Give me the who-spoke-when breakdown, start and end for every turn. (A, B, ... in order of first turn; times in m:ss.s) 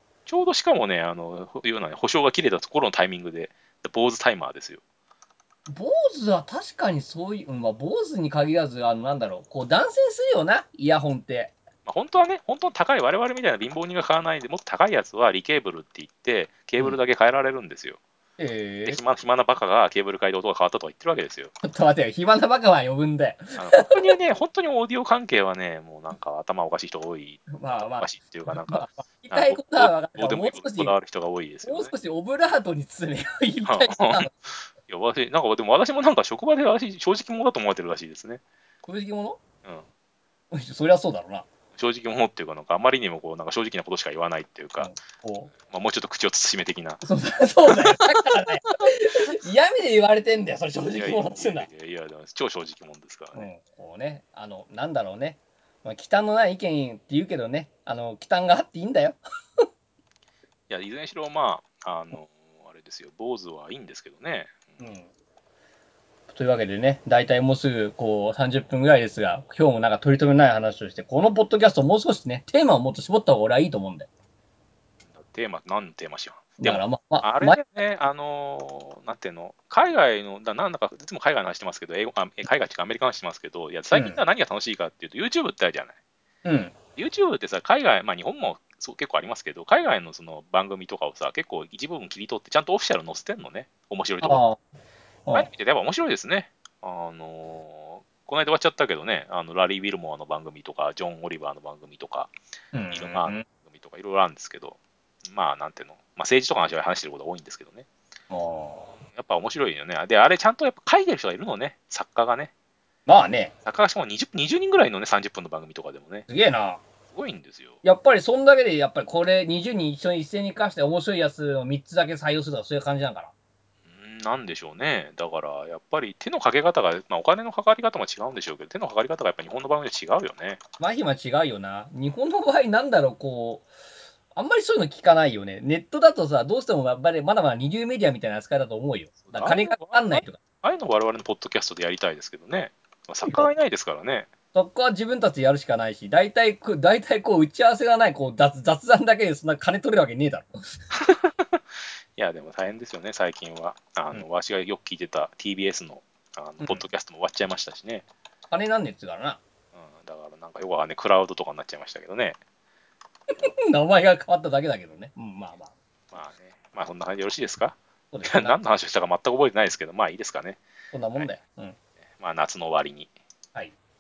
0:00.3-0:04.8 A
0:05.7-0:11.5 B
0:11.8-0:18.0 A
0:18.4-0:19.0 B
0:18.9-0:21.5 A
0:21.6-0:24.0 B
0:23.6-0:31.9 A
0:27.5-0:31.0 B
0:31.6-0:34.3 B
0:33.6-0:38.4 A
0:38.8-0:39.4 B
0:40.5-0:41.5 B
0:41.8-0:45.0 A
0:44.8-0:45.5 B
0:45.7-0:47.0 A
0:47.0-0:51.7 B
0:50.9-0:53.5 A
0:53.4-0:59.2 B
1:00.7-1:04.8 A
1:04.8-1:05.1 B
1:06.3-1:14.1 B
1:15.1-1:26.0 A
1:16.6-1:17.6 B
1:23.9-1:24.2 B
1:26.4-1:26.8 B
1:27.0-1:34.4 A
1:34.2-1:34.6 B
1:35.3-1:42.3 A
1:42.7-1:43.4 B
1:42.9-1:47.9 A
1:48.3-1:48.9 B
1:49.1-1:52.5 A
1:53.1-1:53.5 B
1:53.6-1:56.3 A
1:56.3-1:56.8 B
1:57.1-1:57.8 A
1:57.8-2:03.3 B
2:03.9-2:10.6 A
2:10.8-2:13.7 B
2:14.4-2:20.4 B
2:19.2-2:24.3 A
2:24.5-2:30.5 B
2:30.9-2:31.6 A
2:32.2-2:38.0 A
2:36.6-2:36.8 B
2:38.5-2:39.4 B
2:39.8-2:42.4 A
2:43.3-2:45.7 B
2:46.1-2:50.6 A
2:48.1-2:48.6 B
2:50.9-2:51.8 B
2:52.2-2:53.1 A